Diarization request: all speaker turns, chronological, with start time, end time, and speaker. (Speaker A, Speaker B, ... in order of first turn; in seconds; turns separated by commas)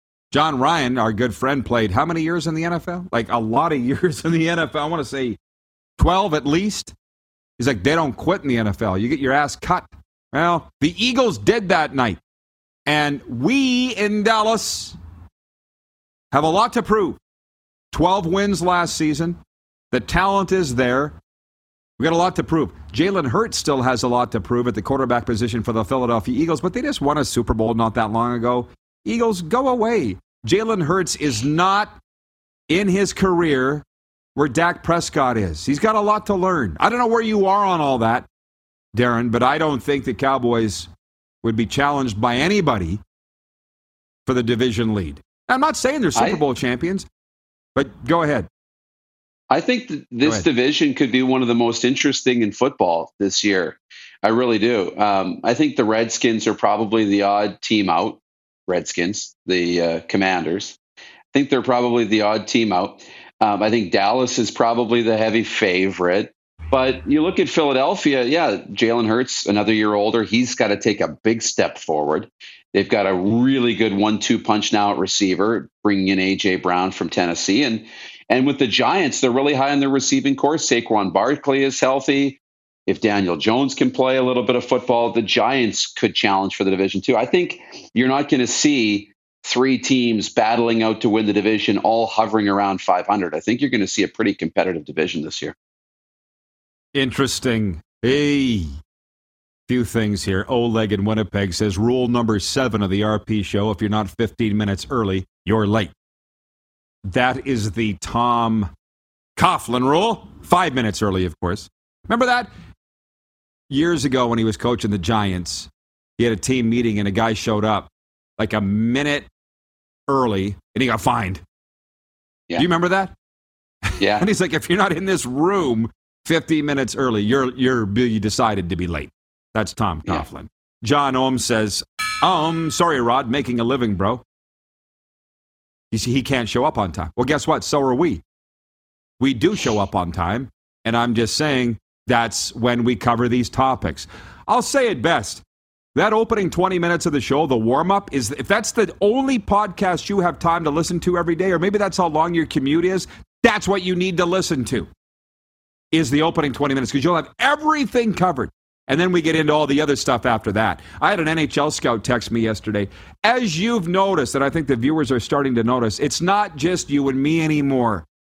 Speaker A: 0.3-5.4, Speaker A: 6.0-6.9, Speaker A: 7.6-12.2, Speaker A: 12.9-15.0, Speaker A: 16.3-17.2, Speaker A: 17.9-19.4, Speaker A: 19.9-21.2, Speaker A: 22.0-32.0, Speaker A: 32.7-33.9, Speaker A: 34.4-38.3, Speaker A: 38.9-40.9, Speaker A: 41.4-43.0, Speaker A: 44.3-47.1, Speaker B: 46.2-46.4, Speaker A: 47.8-48.5, Speaker B: 49.5-60.8, Speaker B: 61.3-95.5, Speaker A: 97.0-98.7, Speaker A: 99.7-105.9, Speaker A: 107.0-108.7, Speaker A: 109.4-112.5, Speaker A: 113.7-119.3, Speaker A: 120.1-121.4, Speaker A: 122.6-123.1, Speaker A: 123.8-134.2, Speaker B: 124.0-124.2, Speaker A: 135.9-138.2, Speaker A: 139.2-145.4, Speaker A: 145.9-154.9, Speaker A: 155.9-168.1